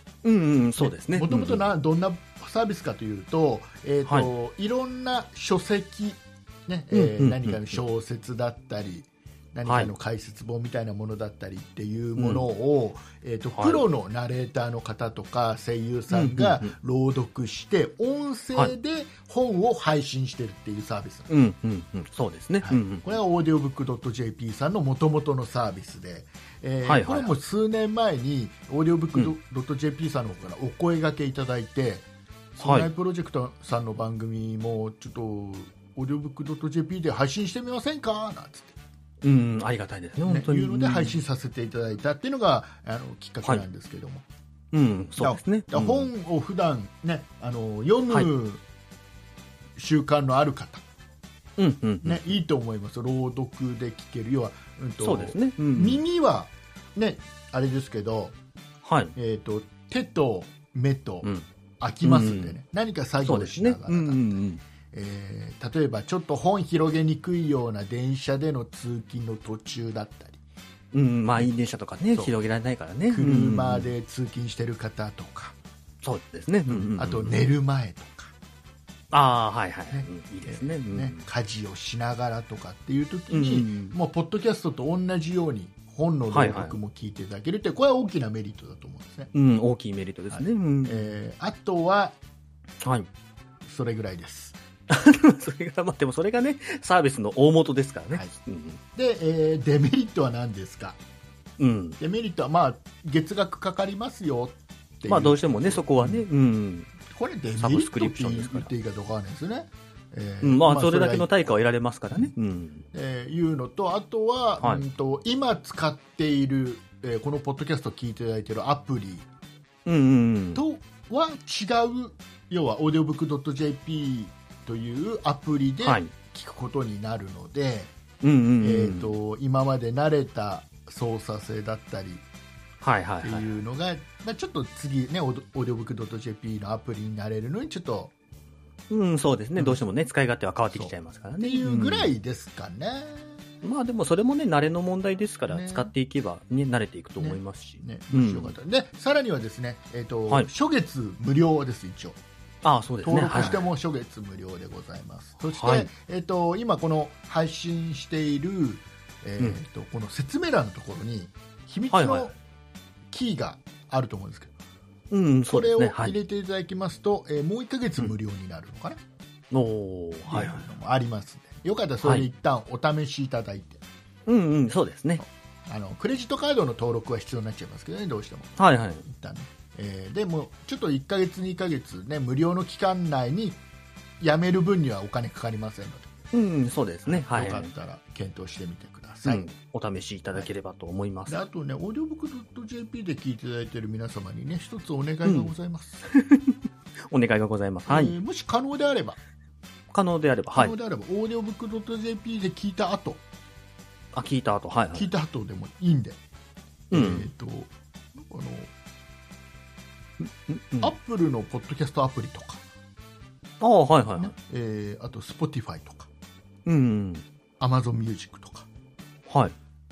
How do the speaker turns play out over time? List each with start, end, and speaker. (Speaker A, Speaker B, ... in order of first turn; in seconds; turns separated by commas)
Speaker A: 0.2-1.6, Speaker B: 0.8-21.3, Speaker A: 6.9-7.8, Speaker A: 9.7-9.9, Speaker A: 12.2-12.4, Speaker A: 13.6-13.8, Speaker A: 16.1-16.7, Speaker A: 21.3-23.1, Speaker B: 22.6-38.8, Speaker A: 26.8-27.3, Speaker A: 32.6-32.9, Speaker A: 39.2-41.2, Speaker B: 40.2-44.2, Speaker A: 44.7-46.1, Speaker B: 45.2-48.6, Speaker B: 49.8-50.8, Speaker A: 51.6-52.3, Speaker B: 52.0-58.3, Speaker A: 55.0-56.0, Speaker A: 58.8-59.1, Speaker B: 59.1-61.3, Speaker B: 61.8-64.3, Speaker A: 62.0-62.6, Speaker A: 63.2-64.6, Speaker B: 64.9-70.4, Speaker A: 70.9-73.9, Speaker B: 73.1-75.5, Speaker A: 76.0-77.4, Speaker B: 76.7-78.3, Speaker A: 79.1-81.2, Speaker B: 79.9-89.3, Speaker A: 83.3-84.0, Speaker A: 86.3-86.8, Speaker A: 89.3-91.1, Speaker B: 90.3-92.2, Speaker A: 92.8-93.1, Speaker B: 93.7-94.6, Speaker A: 94.9-98.8, Speaker B: 98.9-101.0, Speaker A: 101.6-102.0, Speaker B: 102.0-106.2, Speaker A: 105.1-106.9, Speaker B: 107.1-111.5, Speaker A: 107.6-108.7, Speaker A: 110.4-112.8, Speaker B: 112.9-119.3, Speaker A: 119.8-120.6, Speaker B: 120.5-127.9, Speaker A: 125.8-126.1, Speaker A: 128.2-129.1, Speaker B: 128.6-132.2, Speaker A: 132.8-133.5, Speaker B: 133.2-138.1, Speaker A: 138.9-142.1, Speaker B: 140.7-143.4, Speaker A: 143.6-148.5, Speaker B: 145.5-145.9, Speaker B: 147.2-152.2, Speaker A: 152.6-153.7, Speaker B: 153.0-162.3, Speaker A: 155.5-155.9, Speaker A: 161.9-162.3, Speaker B: 163.1-164.5, Speaker A: 165.1-166.2, Speaker B: 165.5-169.0, Speaker A: 169.5-170.6, Speaker B: 170.3-173.8, Speaker A: 174.2-175.2, Speaker B: 175.7-183.6, Speaker A: 178.6-179.0, Speaker B: 184.2-186.1, Speaker A: 186.3-187.7, Speaker B: 187.1-189.4, Speaker A: 189.2-191.4, Speaker B: 191.3-196.0, Speaker A: 195.2-195.5, Speaker A: 196.1-196.6, Speaker A: 197.1-198.2, Speaker B: 197.9-199.2, Speaker A: 199.9-200.7, Speaker B: 200.5-203.2, Speaker A: 204.1-205.1, Speaker B: 204.9-206.2, Speaker A: 206.9-207.3, Speaker B: 206.9-208.7, Speaker A: 210.2-210.9, Speaker B: 210.8-212.6, Speaker A: 213.6-214.3, Speaker B: 214.2-216.1, Speaker A: 216.7-217.2, Speaker B: 217.6-218.7, Speaker A: 219.3-219.5